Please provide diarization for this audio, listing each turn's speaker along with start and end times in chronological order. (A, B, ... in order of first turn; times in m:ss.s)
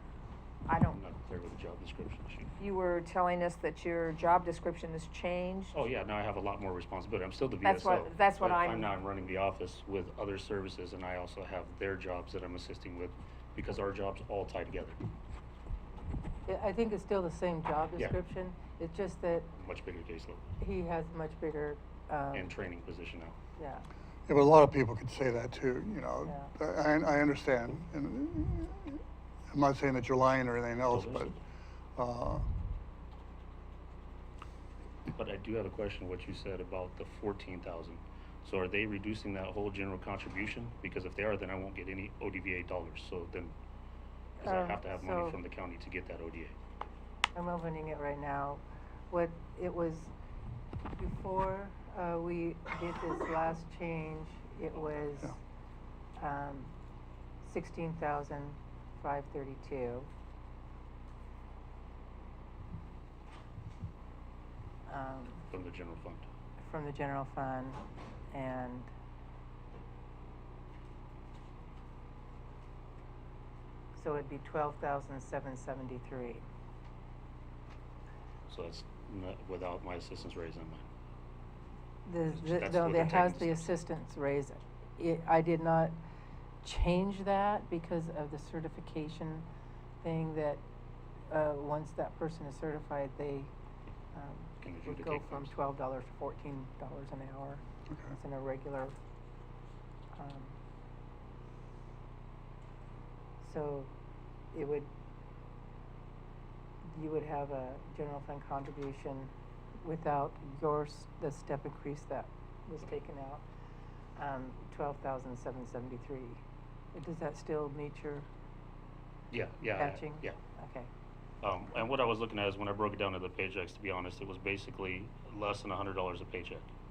0:00.7-0:01.0 A
0:00.9-0:02.5 B
0:02.6-0:05.8 A
0:05.7-0:15.0 B
0:07.6-0:08.9 A
0:16.5-0:19.5 C
0:19.5-0:20.4 B
0:20.6-0:22.6 C
0:22.3-0:23.4 B
0:23.6-0:23.9 C
0:24.3-0:28.9 D
0:26.3-0:26.5 C
0:29.5-0:31.4 D
0:30.9-0:31.4 B
0:32.0-0:32.5 D
0:35.1-0:43.5 B
0:44.4-0:46.6 B
0:44.4-0:45.4 C
0:47.4-0:50.1 C
0:51.0-0:55.4 C
0:56.2-0:56.7 C
0:57.4-1:00.1 C
1:04.9-1:05.4 C
1:05.5-1:06.3 B
1:06.6-1:07.8 C
1:08.3-1:08.9 C
1:14.0-1:16.4 C
1:18.5-1:20.9 B
1:22.0-1:26.0 C
1:22.3-1:23.7 B
1:26.6-1:29.5 C
1:30.0-1:30.6 C
1:31.3-1:33.5 C
1:34.1-1:37.6 C
1:34.6-1:35.5 B
1:38.2-1:39.0 C
1:40.2-1:40.6 C
1:43.4-1:43.9 C
1:44.5-1:44.9 C
1:46.8-1:53.4 C
1:54.2-1:56.4 C
1:56.9-1:58.3 C
1:59.3-2:00.4 B
1:59.8-2:00.9 C
2:01.4-2:06.7 B